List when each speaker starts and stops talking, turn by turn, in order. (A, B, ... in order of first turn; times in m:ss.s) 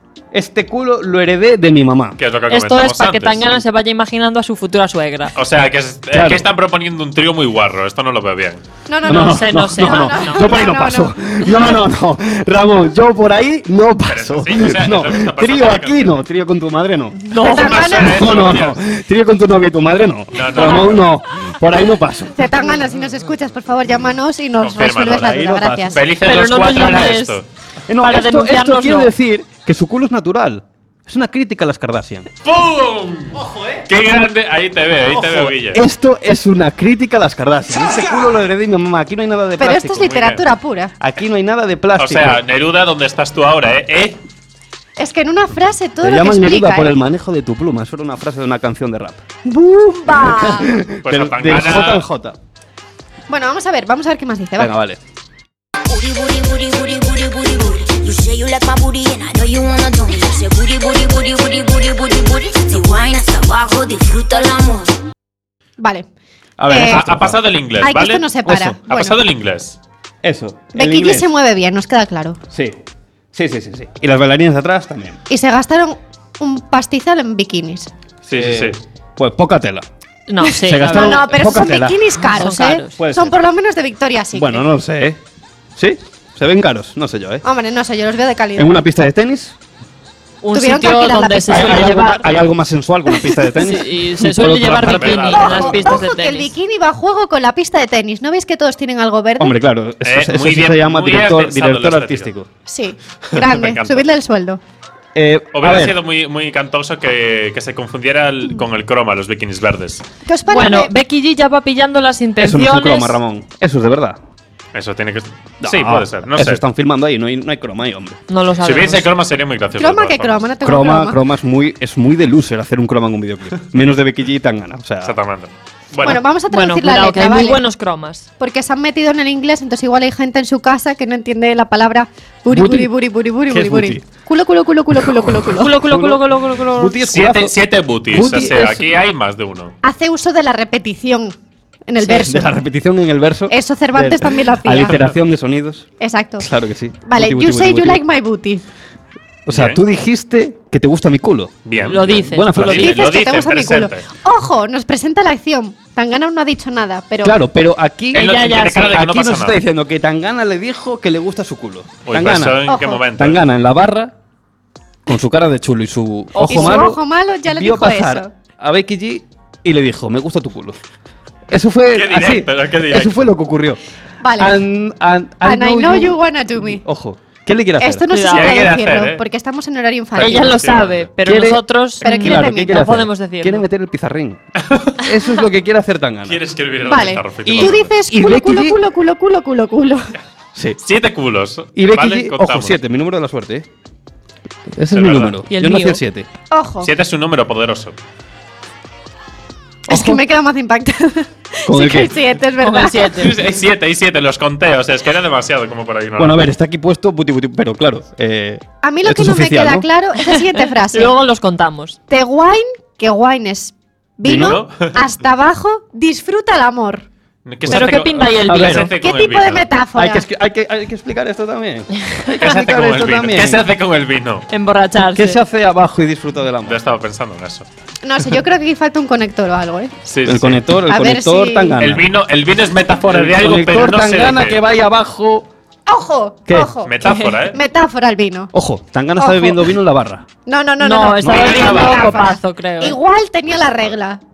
0:00.3-0:02.2 A
0:02.2-0:03.6 B
0:02.5-0:05.3 C
0:05.4-0:08.6 B
0:06.1-0:06.4 A
0:08.9-0:11.8 D
0:09.0-0:22.5 A
0:09.1-0:10.5 C
0:14.1-0:16.1 B
0:17.3-0:17.9 C
0:17.4-0:18.4 D
0:17.4-0:18.8 B
0:20.3-0:21.0 B
0:22.4-0:26.0 D
0:24.6-0:25.4 B
0:25.1-0:26.0 A
0:25.9-0:27.5 B
0:26.2-0:27.4 C
0:27.9-0:32.3 A
0:28.0-0:29.1 C
0:32.4-0:35.8 B
0:33.3-0:33.9 A
0:35.1-0:40.1 A
0:39.6-0:40.9 D
0:40.0-0:40.4 B
0:41.0-0:42.4 A
0:42.0-0:44.2 B
0:45.0-0:47.0 D
0:46.0-0:49.2 A
0:49.4-0:50.7 D
0:50.1-0:52.4 A
0:51.0-0:52.1 B
0:53.3-0:54.7 D
0:54.6-0:55.0 A
0:55.9-1:05.0 E
1:05.8-1:06.1 D
1:06.6-1:07.4 A
1:06.7-1:07.0 D
1:06.7-1:08.3 B
1:07.8-1:09.2 D
1:08.5-1:08.8 A
1:08.9-1:09.8 B
1:10.2-1:11.3 A
1:10.8-1:12.4 D
1:12.5-1:12.8 A
1:13.3-1:15.2 A
1:15.3-1:17.9 D
1:18.3-1:18.8 B
1:18.3-1:19.9 A
1:20.3-1:21.3 C
1:20.6-1:24.6 D
1:20.7-1:22.0 A
1:22.3-1:23.0 C
1:23.0-1:23.4 A
1:24.3-1:25.2 A
1:25.8-1:27.4 A
1:27.4-1:28.8 D
1:28.6-1:29.6 A
1:30.4-1:32.3 C
1:30.5-1:31.9 D
1:31.5-1:35.6 A
1:33.6-1:36.5 C
1:34.8-1:35.8 B
1:35.3-1:39.6 D
1:39.4-1:42.5 A
1:40.0-1:42.3 B
1:42.7-1:44.6 D
1:43.2-1:44.1 B
1:45.2-1:46.0 A
1:45.5-1:50.0 B
1:50.3-1:50.9 D
1:50.5-1:53.2 C
1:52.4-1:54.2 A
1:54.7-1:56.6 B
1:55.6-1:58.2 A
1:58.3-1:59.1 C
1:58.6-2:00.5 B
1:59.8-2:01.2 D
2:00.6-2:05.2 A
2:05.0-2:06.2 B
2:06.0-2:07.6 D
2:06.5-2:08.3 C
2:08.4-2:15.7 D
2:12.5-2:12.9 A
2:13.5-2:14.1 A
2:14.9-2:17.6 A
2:15.6-2:17.0 C
2:17.1-2:19.7 B
2:18.1-2:18.9 A
2:19.8-2:21.4 D
2:21.9-2:22.5 D
2:22.0-2:25.9 A
2:23.5-2:25.0 D
2:26.0-2:26.5 D
2:26.4-2:28.0 A
2:27.1-2:28.6 D
2:29.5-2:33.1 A
2:29.5-2:29.8 B
2:31.7-2:34.0 B
2:31.9-2:32.6 C
2:32.8-2:37.4 D
2:37.2-2:42.6 A
2:38.1-2:39.0 C
2:38.1-2:39.6 B
2:42.1-2:43.4 B
2:42.7-2:43.0 D
2:43.2-2:44.1 A
2:45.1-2:50.8 A
2:46.3-2:46.9 C
2:46.5-2:48.3 D
2:51.5-2:53.8 A
2:51.9-2:53.2 B
2:54.2-2:54.5 D
2:54.4-2:58.1 A
2:55.4-2:56.8 D
2:57.8-3:00.6 D
2:58.1-2:58.7 C
2:58.3-2:59.2 B
3:00.2-3:01.1 B
3:00.2-3:03.6 C
3:01.2-3:04.4 A
3:02.0-3:02.8 D
3:04.6-3:05.0 B
3:05.0-3:06.4 A
3:06.3-3:07.9 B
3:06.8-3:10.1 D
3:07.5-3:08.8 A
3:10.6-3:10.8 A
3:10.8-3:12.8 B
3:11.8-3:13.7 A
3:14.7-3:16.3 A
3:15.0-3:15.4 B
3:15.5-3:16.0 C
3:16.5-3:16.9 D
3:16.8-3:18.0 B
3:19.9-3:20.2 A
3:19.9-3:23.1 D
3:21.7-3:22.1 A
3:22.6-3:23.4 C
3:23.2-3:26.5 B
3:26.2-3:29.9 A
3:28.8-3:31.1 D
3:30.8-3:32.0 C
3:32.1-3:37.1 D
3:34.2-3:34.6 A
3:34.2-3:35.0 B
3:37.5-3:39.7 B
3:37.6-3:38.9 A
3:37.7-3:38.9 C
3:39.0-3:40.2 D
3:40.0-3:43.7 A
3:42.3-3:44.5 B
3:44.5-3:45.4 C
3:45.1-3:46.8 A
3:46.6-3:47.7 B
3:48.0-3:49.9 D
3:50.1-3:50.6 B
3:50.2-3:52.1 A
3:50.9-3:51.8 D
3:51.8-3:54.6 B
3:53.1-3:55.5 A
3:55.9-3:58.5 D
3:56.8-3:57.6 B
3:57.0-3:57.4 C
3:58.5-4:00.3 A
3:59.2-3:59.6 D
4:00.5-4:04.2 D
4:00.8-4:03.0 C
4:01.2-4:01.8 A
4:01.3-4:02.2 B